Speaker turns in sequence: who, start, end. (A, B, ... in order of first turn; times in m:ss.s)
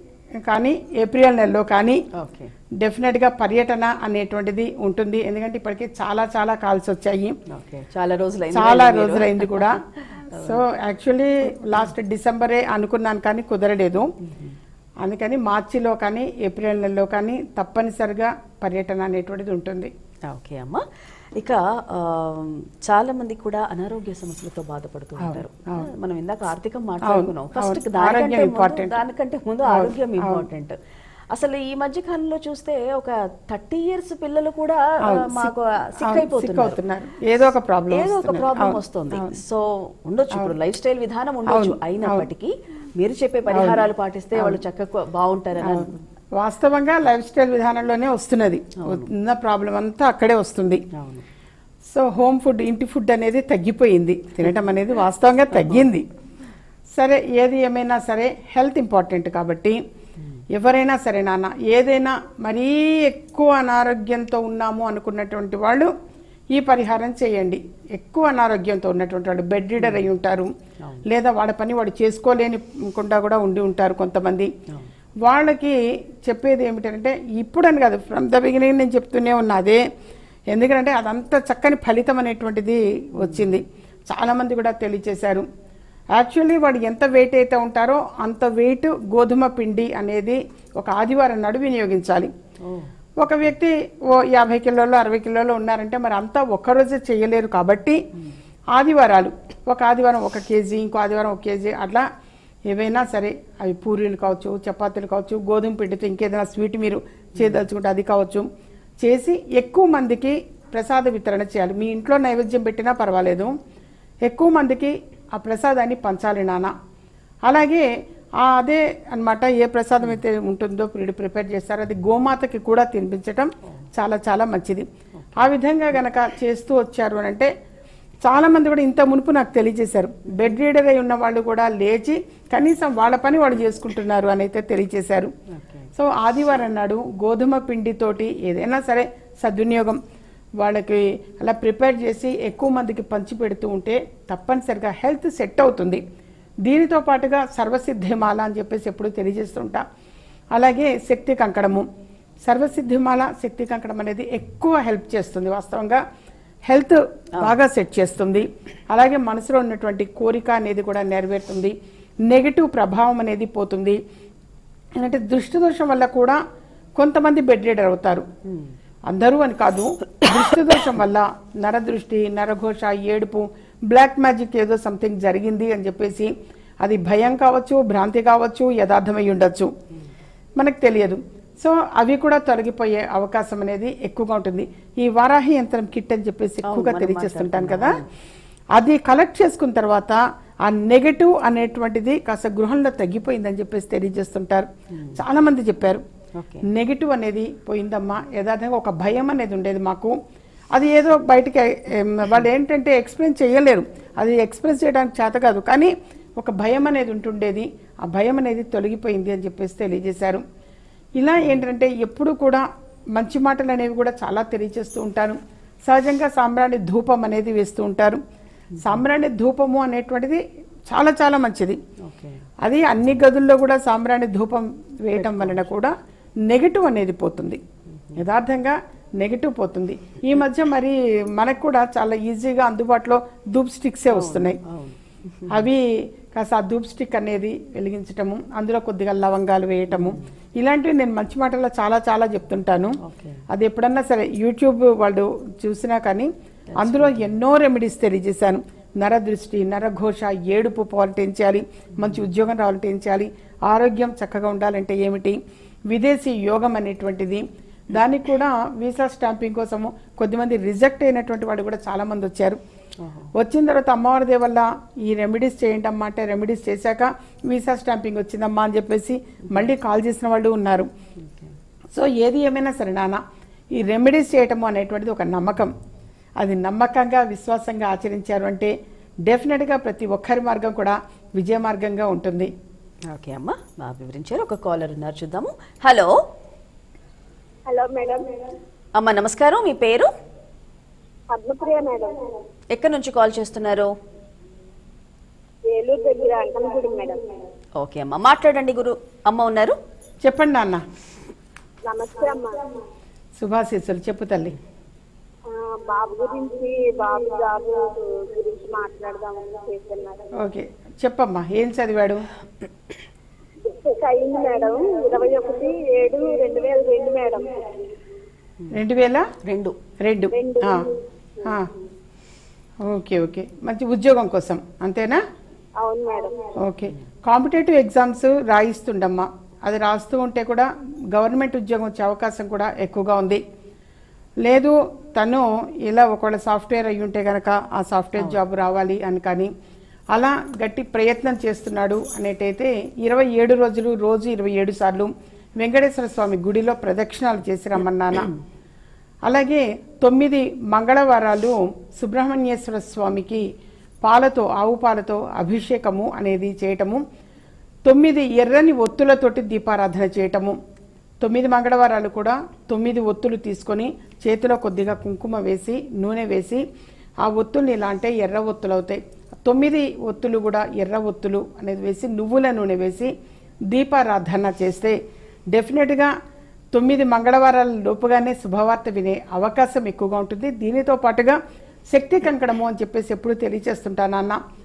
0:00.4-0:02.0 A
0:02.1-0:02.5 B
0:02.8-0:07.4 A
0:07.5-0:10.6 B
0:08.5-0:14.1 A
0:14.2-0:14.6 B
0:15.0-0:19.9 A
0:20.3-0:20.8 B
0:21.4-0:30.8 B
0:25.2-0:25.9 A
0:27.0-0:29.0 A
0:29.7-0:30.4 A
0:31.3-0:36.8 B
0:35.1-0:39.4 A
0:37.9-0:46.0 B
0:41.5-0:42.3 A
0:43.5-0:44.6 A
0:45.6-0:50.8 A
0:48.8-0:49.1 B
0:50.9-0:51.2 B
0:51.9-0:56.1 A
0:55.5-0:55.9 B
0:56.9-0:59.8 A
1:00.5-1:05.9 A
1:06.5-1:10.5 A
1:09.8-1:10.1 B
1:11.1-1:14.5 A
1:15.2-1:19.8 A
1:20.5-1:25.5 A
1:23.2-1:23.6 B
1:26.1-1:32.3 A
1:32.6-1:32.9 B
1:33.2-1:38.0 A
1:38.7-1:42.1 A
1:42.7-1:48.5 A
1:47.4-1:47.6 B
1:49.0-1:53.5 A
1:54.2-1:56.7 A
1:57.4-1:57.9 A
1:58.4-2:07.5 A
2:05.1-2:05.5 B
2:08.2-2:15.3 A
2:15.5-2:15.9 B
2:16.0-2:20.0 A
2:20.6-2:26.0 A
2:26.6-2:29.8 A
2:30.5-2:31.9 A
2:32.4-2:36.0 A
2:36.7-2:41.8 A
2:42.2-2:44.0 A
2:45.0-2:46.4 A
2:47.0-2:48.2 A
2:48.5-2:48.7 B
2:49.1-2:59.7 A
3:00.6-3:08.0 A
3:06.6-3:08.0 B
3:08.7-3:16.0 A
3:14.9-3:15.2 B
3:16.4-3:16.6 B
3:16.6-3:20.2 A
3:20.7-3:30.4 A
3:31.2-3:38.2 A
3:38.7-3:39.0 B
3:38.8-3:41.8 A
3:42.0-3:42.5 B
3:42.6-3:45.9 A
3:45.1-3:45.6 B
3:46.5-3:47.6 A
3:47.9-3:48.2 B
3:48.2-3:54.6 A
3:54.1-3:55.7 B
3:55.5-4:03.0 A
3:59.9-4:00.3 B
4:03.0-4:03.4 B
4:03.5-4:15.4 A
4:06.7-4:07.3 B
4:12.0-4:12.3 B
4:15.9-4:22.6 A
4:23.0-4:23.3 B
4:23.4-4:30.9 A
4:31.2-4:31.5 B
4:31.9-4:33.2 A
4:33.7-4:35.7 A
4:36.4-4:38.7 A
4:39.2-4:42.5 A
4:43.1-4:46.1 B
4:47.7-4:48.4 C
4:49.0-4:50.1 B
4:51.3-4:52.2 C
4:52.7-4:53.9 B
4:55.7-4:57.2 C
4:57.8-4:59.8 B
5:00.2-5:00.8 A
5:01.9-5:02.6 C
5:03.4-5:04.6 A
5:05.5-5:10.3 C
5:10.4-5:12.3 A
5:13.7-5:17.6 C
5:18.7-5:19.3 A
5:19.5-5:19.8 B
5:20.0-5:20.8 A
5:20.3-5:21.6 C
5:22.8-5:25.2 A
5:25.8-5:26.4 C
5:26.6-5:33.4 A
5:34.4-5:39.5 A
5:40.1-5:48.3 A
5:49.2-5:53.5 A
5:54.0-5:57.0 A
5:57.8-6:00.6 A
6:01.2-6:06.6 A
6:07.2-6:13.1 A
6:13.7-6:15.0 A
6:15.5-6:16.1 A
6:16.7-6:21.4 A
6:21.9-6:24.4 A